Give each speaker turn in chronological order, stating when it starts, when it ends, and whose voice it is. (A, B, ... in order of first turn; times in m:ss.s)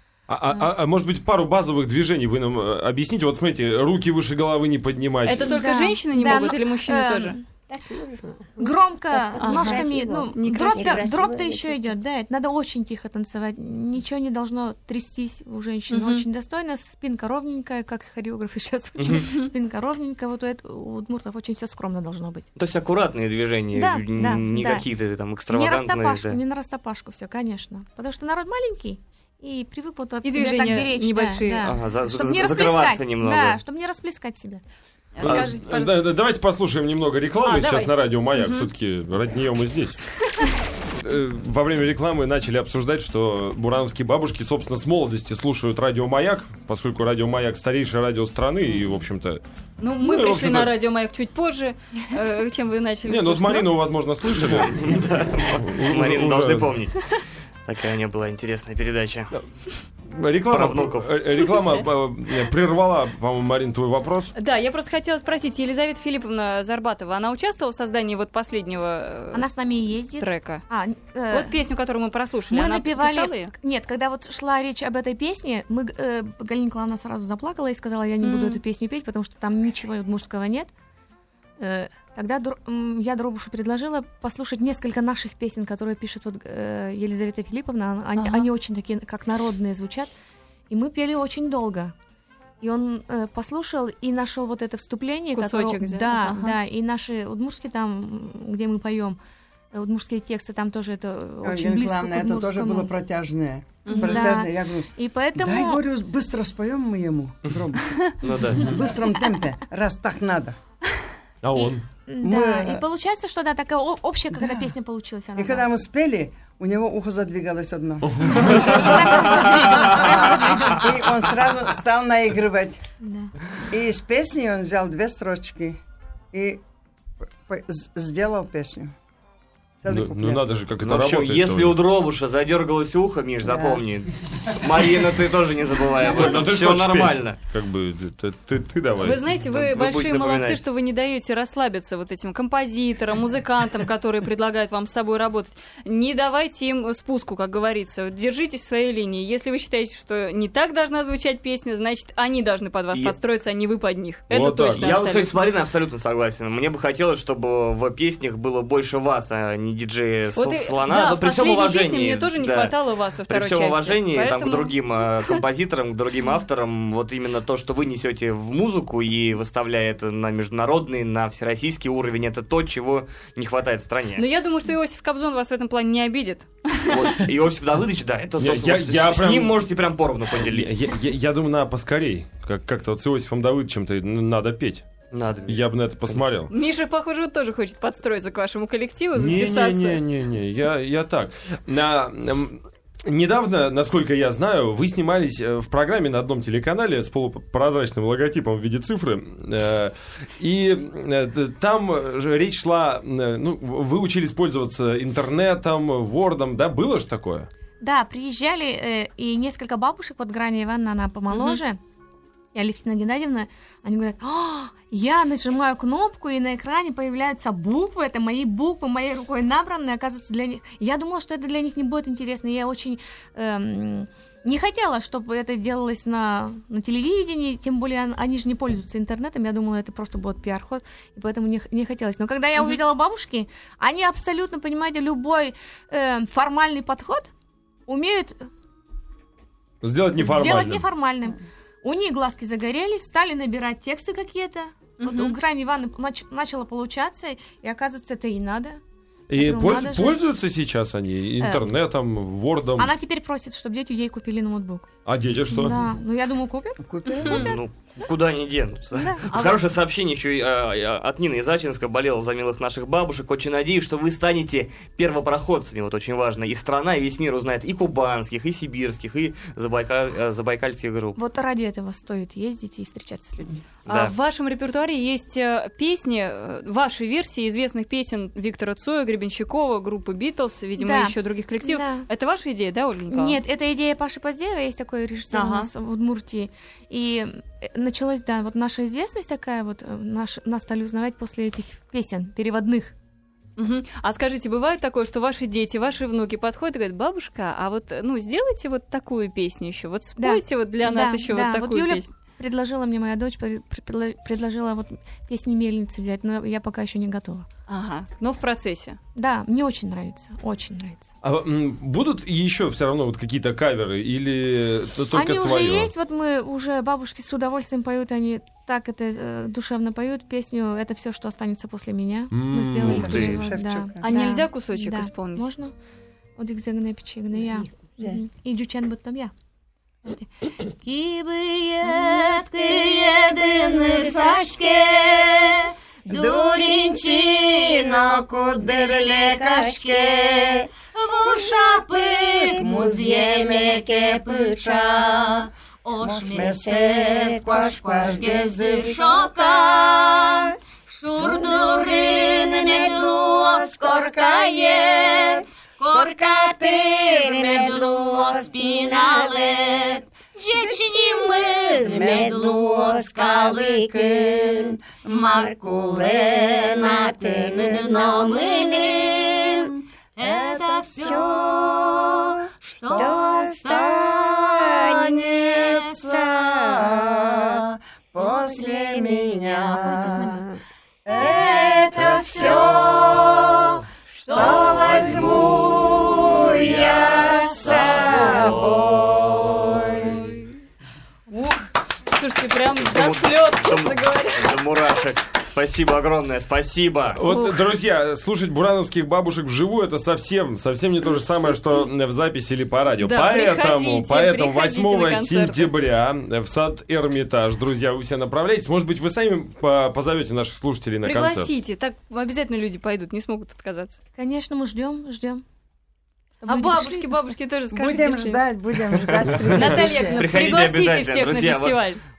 0:00.3-0:05.6 A
0:05.2-0:07.4 B
0:05.4-0:07.4 C
0:07.7-0:11.8 D
0:08.6-0:22.5 C
0:09.4-0:11.1 B
0:15.9-0:16.2 B
0:19.1-0:19.5 B
0:22.6-0:26.4 E
0:23.7-0:24.9 C
0:25.5-0:34.6 C
0:30.2-0:31.7 B
0:31.6-0:33.6 E
0:35.1-0:36.1 B
0:35.2-0:40.1 A
0:37.4-0:38.7 B
0:40.9-0:49.4 A
0:49.8-0:53.7 B
0:50.0-0:50.7 A
0:53.0-0:56.8 A
0:54.4-0:59.3 E
1:00.1-1:04.3 A
1:00.5-1:01.2 E
1:01.5-1:01.8 B
1:04.4-1:09.5 B
1:09.3-1:11.6 C
1:10.2-1:10.6 B
1:11.3-1:13.5 B
1:12.5-1:20.7 C
1:18.2-1:18.6 B
1:21.6-1:30.1 C
1:28.2-1:28.5 B
1:30.7-1:31.9 C
1:32.6-1:39.2 C
1:35.3-1:36.6 B
1:39.7-1:42.9 C
1:41.4-1:50.6 F
1:43.8-1:44.4 B
1:43.9-1:45.8 C
1:48.2-1:48.8 E
1:51.4-1:51.8 A
1:51.6-1:55.6 C
1:52.2-1:52.8 F
1:54.3-1:54.7 F
1:55.4-2:02.8 F
1:58.1-1:59.9 A
1:58.5-2:00.8 C
2:03.0-2:03.3 C
2:03.7-2:05.8 F
2:06.3-2:06.6 F
2:07.4-2:08.9 F
2:09.8-2:10.4 F
2:09.9-2:11.8 A
2:10.8-2:17.4 E
2:13.4-2:13.8 F
2:16.0-2:19.2 A
2:19.0-2:35.5 B
2:19.5-2:20.6 E
2:34.3-2:34.9 A
2:34.7-2:42.7 E
2:40.4-2:45.4 B
2:43.3-2:54.3 E
2:54.1-2:57.0 B
2:56.8-3:00.8 E
2:58.4-2:59.6 A
3:00.4-3:04.9 A
3:05.1-3:06.3 E
3:05.5-3:06.5 A
3:06.5-3:10.0 B
3:09.1-3:27.5 A
3:27.8-3:31.8 C
3:31.3-3:31.6 B
3:32.5-3:57.3 C
3:57.9-3:58.5 C
3:59.8-4:00.9 A
4:00.2-4:08.8 C
4:05.0-4:05.3 B
4:09.3-4:12.9 A
4:09.4-4:10.2 C
4:12.8-4:14.9 C
4:15.0-4:15.8 A
4:15.5-4:17.6 C
4:16.8-4:17.6 F
4:17.2-4:17.5 B
4:17.2-4:31.2 E
4:19.0-4:19.4 C
4:31.2-4:33.6 C
4:33.8-4:43.4 B
4:33.9-4:34.1 E
4:40.8-4:42.1 C
4:43.1-4:52.9 C
4:45.3-4:45.7 B
4:53.6-5:02.1 B
5:00.2-5:07.5 C
5:07.7-5:09.0 B
5:09.1-5:11.1 C
5:11.2-5:15.9 A
5:15.1-5:25.7 C
5:22.3-5:23.4 A
5:22.8-5:23.4 E
5:22.8-5:24.1 F
5:24.0-5:25.5 B
5:26.4-5:29.3 C
5:27.5-5:28.2 D
5:30.0-5:31.3 C
5:31.2-6:12.0 G
5:36.1-5:36.5 F
5:39.4-5:39.8 D
5:42.6-5:43.1 D
5:42.6-5:44.6 F
5:46.0-5:49.1 F
5:57.5-5:59.1 D
6:01.8-6:03.0 F
6:01.9-6:04.4 D
6:04.0-6:04.8 F
6:05.9-6:08.4 F
6:07.5-6:08.0 D
6:10.2-6:11.9 F
6:12.6-6:16.6 G
6:12.9-6:13.8 D
6:13.0-6:20.4 F
6:18.7-6:20.6 D
6:21.1-6:23.3 F
6:21.1-6:29.8 G
6:24.3-6:30.4 F
6:24.8-6:25.6 E
6:26.6-6:27.5 E
6:28.1-6:28.8 E
6:32.1-6:34.8 B
6:32.8-6:37.2 E
6:37.1-6:51.5 A
6:37.2-6:37.6 B
6:43.0-6:45.7 B
6:51.0-6:54.0 B
6:54.2-6:55.4 C
6:56.4-6:57.2 C
6:56.5-6:58.4 B
6:57.7-7:00.2 F
6:59.5-7:02.0 B
7:00.1-7:01.9 E